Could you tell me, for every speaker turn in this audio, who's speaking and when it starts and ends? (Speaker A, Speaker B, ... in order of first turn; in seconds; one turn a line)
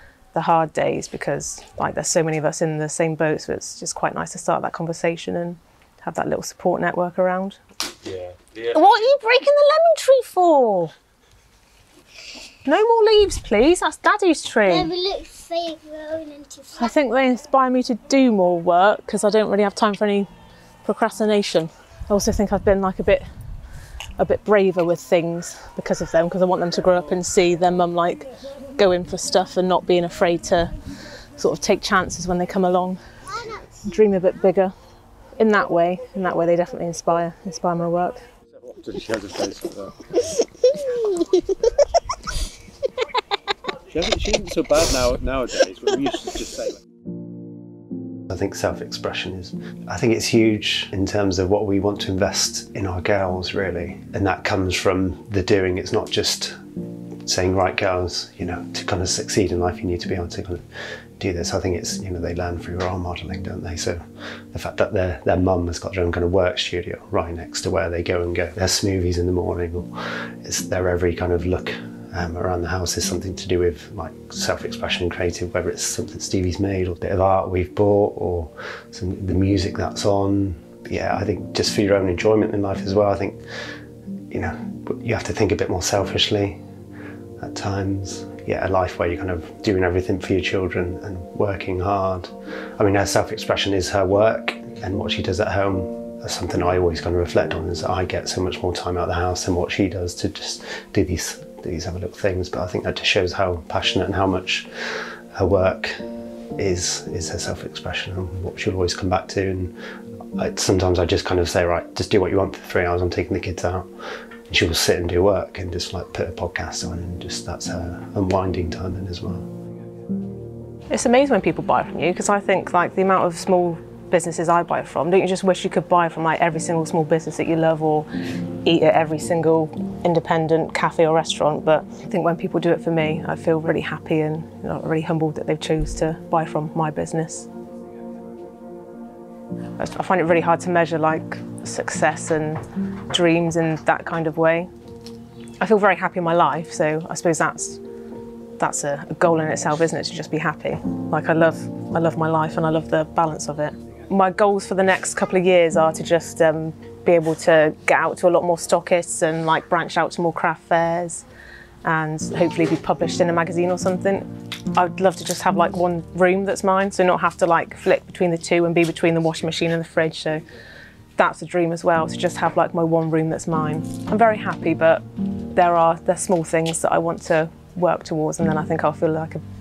Speaker A: 0.3-7.6
Speaker B: 8.0-8.7
Speaker A: 8.6-10.9
Speaker A: 12.6-14.9
Speaker C: 14.7-16.9
Speaker A: 16.8-20.3
Speaker A: 20.8-23.2
Speaker A: 24.2-30.7
Speaker A: 31.4-33.0
Speaker A: 33.6-34.7
Speaker A: 35.4-38.2
Speaker B: 38.6-39.9
Speaker B: 43.9-46.8
Speaker D: 48.3-56.6
Speaker D: 57.2-60.6
Speaker D: 61.2-83.4
Speaker D: 84.3-86.6
Speaker D: 87.4-106.0
Speaker D: 106.5-109.7
Speaker D: 110.4-113.9
Speaker D: 114.5-119.5
Speaker A: 120.9-128.1
Speaker A: 128.6-137.5
Speaker A: 139.8-144.7
Speaker A: 145.6-147.8
Speaker A: 148.6-161.2
Speaker A: 161.8-170.4
Speaker A: 171.2-179.4